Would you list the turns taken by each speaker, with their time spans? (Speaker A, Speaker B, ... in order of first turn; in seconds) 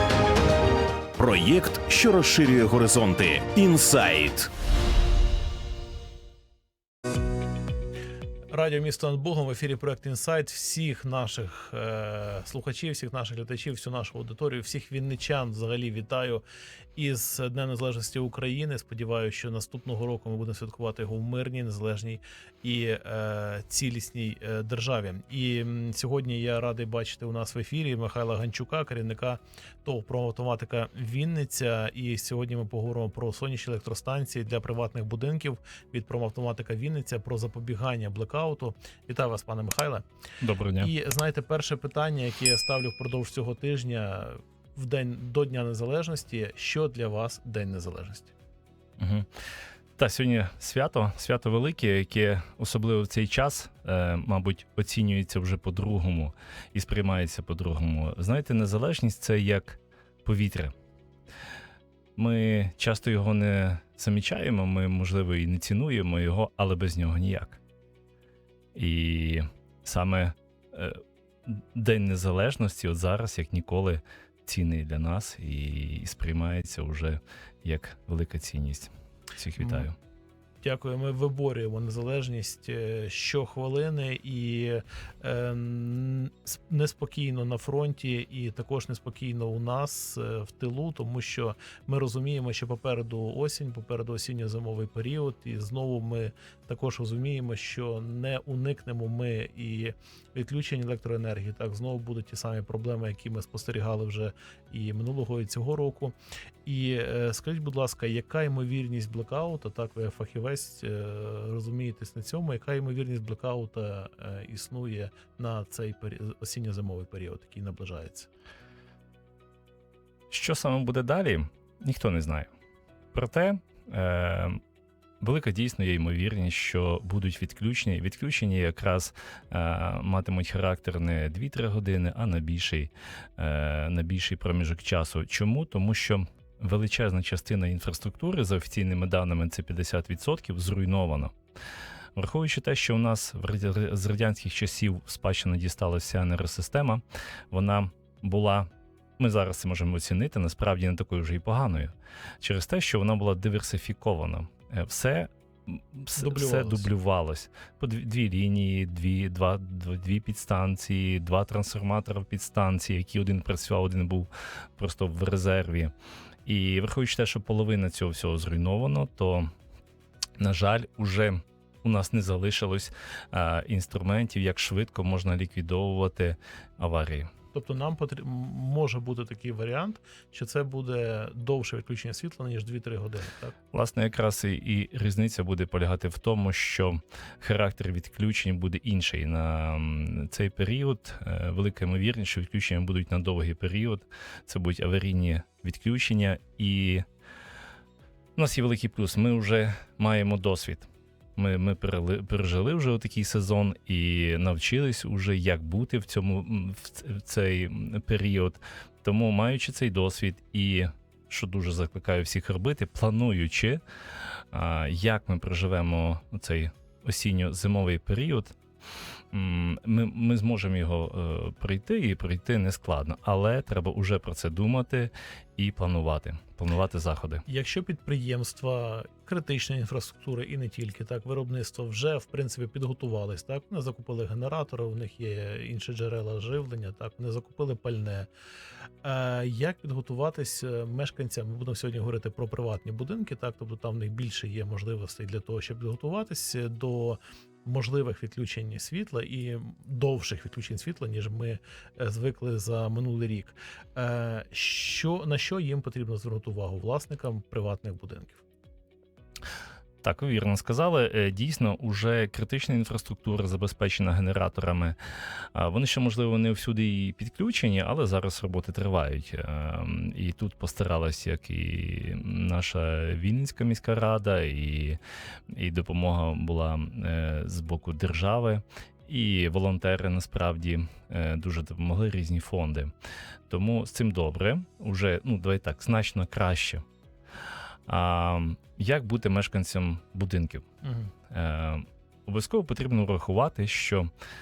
Speaker A: 1.1-4.5
Speaker B: 8.5-16.4, 16.9-40.0, 40.8-48.3, 79.6-79.8, 80.6-118.3, 156.2-156.9, 177.5-183.5, 227.4-238.3, 239.0-258.4, 290.8-291.1
Speaker C: 40.4-40.9, 49.0-49.3, 50.0-60.7, 62.2-67.6, 68.7-79.9, 120.3-122.5, 123.1-124.6, 125.2-141.3, 142.2-148.7, 149.2-165.9, 166.4-169.5, 170.4-177.3, 183.7-197.0, 198.3-213.8, 214.5-218.6, 219.3-227.4, 260.0-264.9, 265.5-275.0, 275.5-282.9, 283.5-286.8, 287.9-290.6, 291.3-294.1